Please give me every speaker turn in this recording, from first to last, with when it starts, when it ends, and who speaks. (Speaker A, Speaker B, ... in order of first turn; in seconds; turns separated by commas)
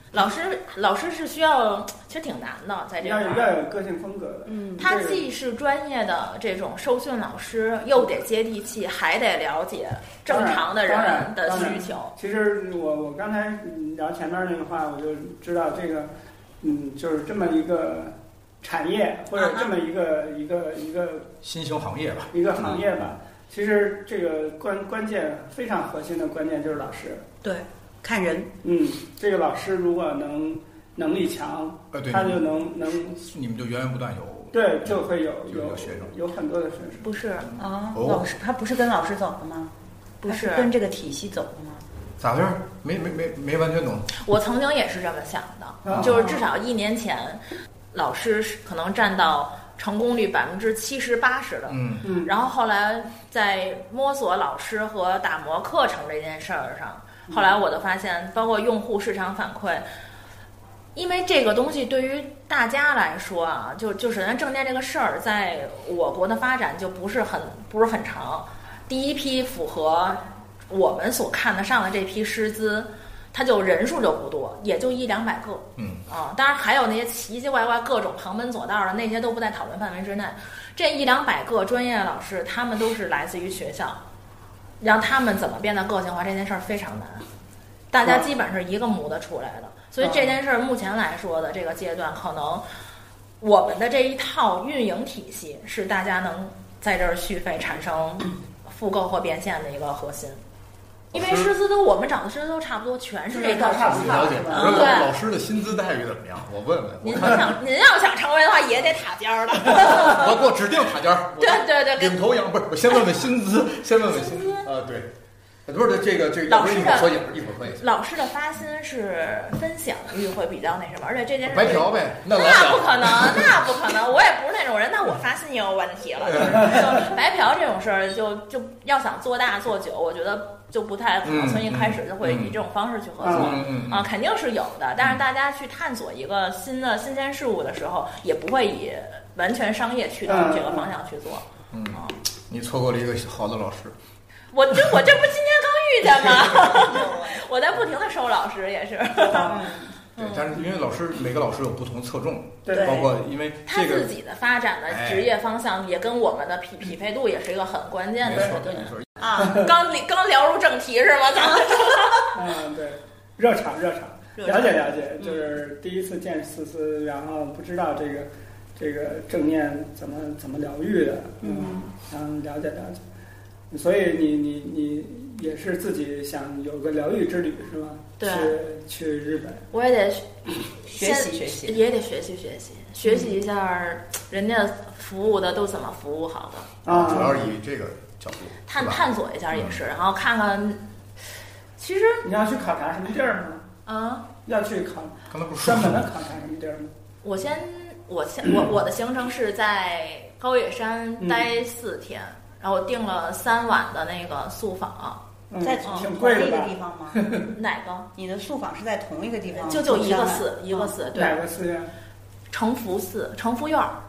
Speaker A: 0.1-3.5, Speaker B: 3.0-5.2, Speaker C: 4.5-4.9, Speaker A: 4.8-12.1, Speaker B: 10.3-21.3, Speaker C: 19.4-19.7, Speaker D: 21.4-22.9, Speaker B: 22.3-27.2, Speaker C: 27.4-28.5, Speaker B: 28.6-33.2, Speaker D: 31.9-32.4, Speaker D: 33.2-36.1, Speaker B: 34.5-37.1, Speaker A: 37.0-37.5, Speaker D: 37.5-38.3, Speaker C: 37.6-39.7, Speaker A: 40.2-40.7, Speaker C: 40.3-41.9, Speaker D: 42.2-44.1, Speaker A: 44.1-47.4, Speaker B: 45.9-46.3, Speaker C: 46.1-46.4, Speaker A: 47.9-59.9, Speaker D: 51.7-52.0, Speaker B: 52.0-52.3, Speaker A: 60.9-84.0, Speaker D: 75.8-76.0, Speaker A: 84.8-87.2, Speaker A: 87.9-92.6, Speaker B: 90.0-90.3, Speaker A: 93.4-100.4, Speaker A: 101.1-105.1, Speaker D: 101.1-101.5, Speaker B: 103.3-104.9, Speaker D: 103.9-107.6, Speaker C: 104.5-104.8, Speaker A: 107.0-110.5, Speaker D: 109.6-115.1, Speaker A: 111.4-112.2, Speaker A: 114.1-114.7, Speaker D: 115.7-117.8, Speaker A: 116.5-142.2, Speaker D: 121.5-123.6, Speaker D: 126.2-126.8, Speaker D: 131.2-132.6, Speaker B: 133.2-133.6, Speaker D: 133.2-134.1, Speaker B: 140.2-140.9, Speaker D: 141.7-143.9, Speaker A: 144.5-150.5, Speaker D: 146.2-146.8, Speaker C: 146.8-147.4, Speaker B: 149.2-149.9, Speaker C: 149.3-149.8, Speaker D: 150.2-154.1, Speaker B: 152.6-153.0, Speaker C: 152.7-153.1, Speaker A: 153.7-162.3, Speaker D: 154.9-155.3, Speaker D: 158.2-159.1, Speaker B: 158.3-158.7, Speaker C: 159.2-159.7, Speaker B: 162.3-173.0, Speaker A: 164.4-165.3, Speaker C: 164.4-164.8, Speaker C: 171.4-171.8, Speaker B: 173.7-179.6, Speaker A: 178.2-178.6, Speaker A: 179.7-186.7, Speaker C: 180.9-181.8, Speaker B: 186.8-187.5, Speaker D: 186.8-189.0, Speaker A: 188.7-190.8, Speaker D: 189.5-189.8, Speaker A: 191.8-192.3, Speaker B: 192.2-193.7, Speaker A: 193.8-194.3, Speaker B: 194.4-196.9, Speaker D: 195.3-196.1, Speaker A: 197.2-205.2, Speaker B: 201.2-201.5, Speaker B: 205.5-207.5, Speaker C: 205.6-207.2, Speaker A: 205.8-206.1, Speaker A: 207.5-208.1, Speaker C: 208.1-210.9, Speaker A: 209.6-211.4, Speaker B: 211.1-211.9, Speaker A: 212.5-214.0